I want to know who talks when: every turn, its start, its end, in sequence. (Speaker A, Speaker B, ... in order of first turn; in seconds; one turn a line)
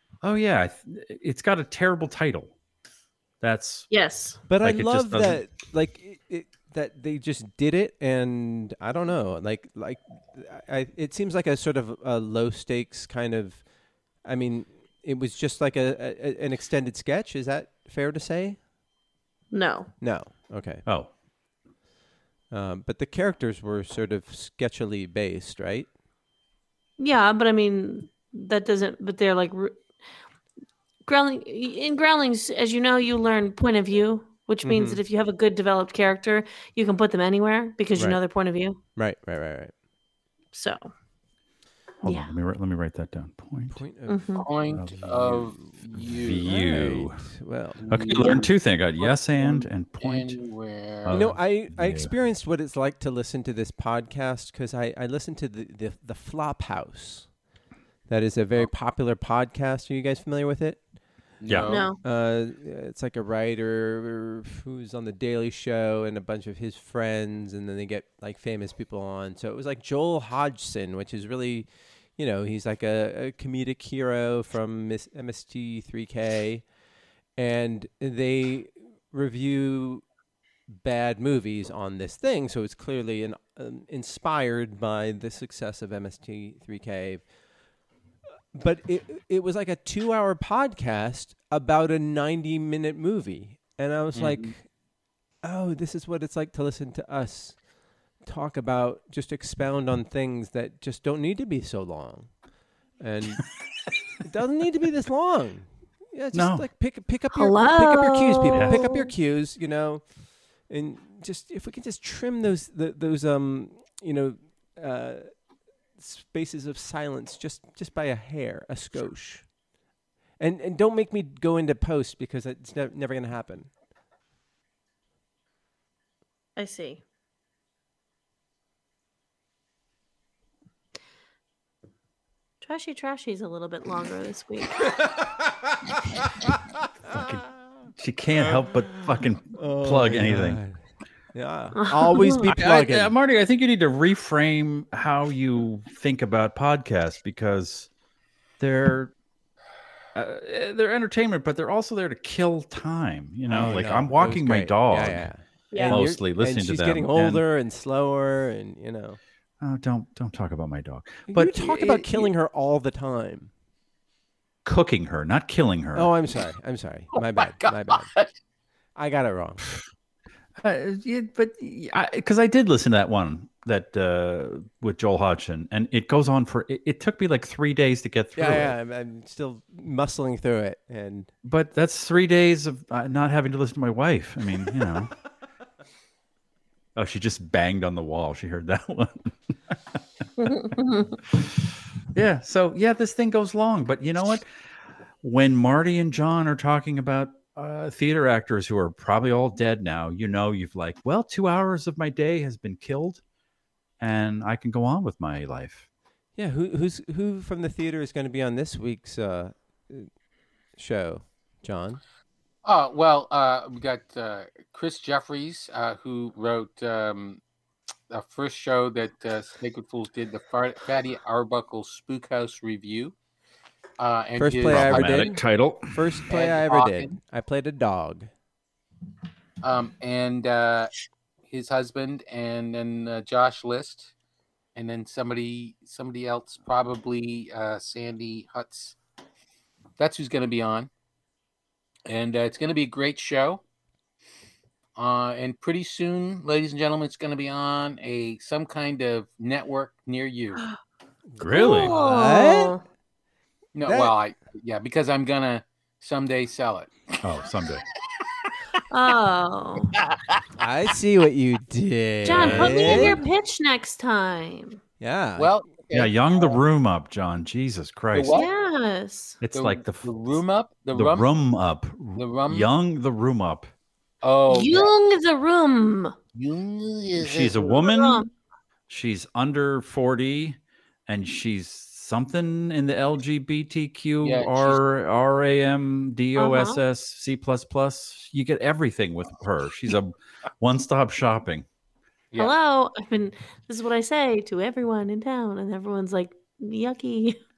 Speaker A: 0.2-2.5
Speaker A: 3.4-3.9
Speaker B: 3.9-4.4
Speaker C: 4.5-13.6
Speaker A: 4.6-5.4
Speaker C: 14.2-18.6
Speaker B: 19.5-19.9
Speaker C: 20.0-20.8
Speaker C: 22.5-25.9
Speaker B: 27.0-29.8
Speaker B: 31.1-38.8
Speaker C: 34.6-35.0
Speaker C: 39.0-39.7
Speaker B: 40.5-40.9
Speaker A: 42.0-43.8
Speaker B: 42.0-42.3
Speaker C: 43.7-44.2
Speaker B: 44.1-44.5
Speaker D: 44.4-46.5
Speaker A: 44.7-47.2
Speaker C: 46.4-47.8
Speaker D: 47.8-51.2
Speaker A: 47.9-50.4
Speaker A: 51.0-52.1
Speaker C: 51.1-57.3
Speaker C: 58.1-60.8
Speaker D: 61.4-61.9
Speaker A: 61.5-61.8
Speaker B: 61.7-62.0
Speaker C: 62.0-76.7
Speaker C: 77.4-80.0
Speaker C: 80.7-87.2
Speaker C: 88.5-94.6
Speaker D: 94.1-94.5
Speaker C: 95.4-97.6
Speaker C: 98.2-102.4
Speaker C: 103.0-103.4
Speaker C: 104.2-110.1
Speaker A: 106.3-106.7
Speaker B: 107.3-109.1
Speaker A: 108.5-108.8
Speaker C: 110.7-115.4
Speaker C: 116.0-119.5
Speaker C: 120.4-123.7
Speaker B: 126.5-127.0
Speaker B: 132.6-134.9
Speaker C: 134.8-135.8
Speaker A: 137.1-140.6
Speaker C: 138.4-140.8
Speaker C: 141.3-143.1
Speaker B: 141.8-142.4
Speaker A: 142.5-147.9
Speaker A: 148.6-149.1
Speaker A: 150.1-157.4
Speaker C: 153.5-159.2
Speaker B: 155.7-156.0
Speaker A: 159.6-162.3
Speaker C: 161.3-163.5
Speaker A: 164.6-166.1
Speaker C: 165.9-168.1
Speaker D: 167.4-168.3
Speaker C: 168.9-169.7
Speaker A: 170.6-178.7
Speaker C: 178.3-181.3
Speaker A: 181.4-185.1
Speaker A: 186.9-189.7
Speaker B: 190.4-191.2
Speaker A: 192.1-194.5
Speaker A: 195.2-203.2
Speaker A: 204.0-205.8
Speaker C: 206.4-210.1
Speaker C: 210.8-212.0
Speaker D: 212.6-217.4
Speaker D: 218.1-223.1
Speaker D: 224.0-225.3
Speaker C: 224.3-228.3
Speaker A: 224.7-226.2
Speaker D: 226.3-227.2
Speaker D: 229.6-230.9
Speaker D: 231.4-234.1
Speaker D: 234.7-238.9
Speaker D: 240.0-240.9
Speaker D: 242.1-243.6
Speaker D: 244.9-250.6
Speaker C: 251.3-252.8
Speaker A: 251.4-251.9
Speaker B: 251.5-252.8
Speaker D: 253.7-257.0
Speaker C: 253.8-254.2
Speaker A: 257.2-257.8
Speaker B: 258.9-259.9
Speaker D: 259.9-260.4
Speaker C: 260.6-263.2
Speaker B: 262.2-264.8
Speaker A: 262.3-263.2
Speaker C: 265.0-265.5
Speaker D: 265.4-266.6
Speaker A: 265.9-268.4
Speaker D: 268.1-268.5
Speaker B: 268.3-269.4
Speaker A: 269.4-270.4
Speaker D: 269.5-271.3
Speaker A: 270.9-273.7
Speaker D: 272.1-272.7
Speaker D: 274.2-274.9
Speaker B: 274.5-276.1
Speaker D: 276.3-277.8
Speaker A: 277.2-278.2
Speaker B: 277.8-278.3
Speaker A: 278.9-291.6
Speaker D: 284.2-284.8
Speaker B: 286.4-286.8
Speaker B: 292.4-297.4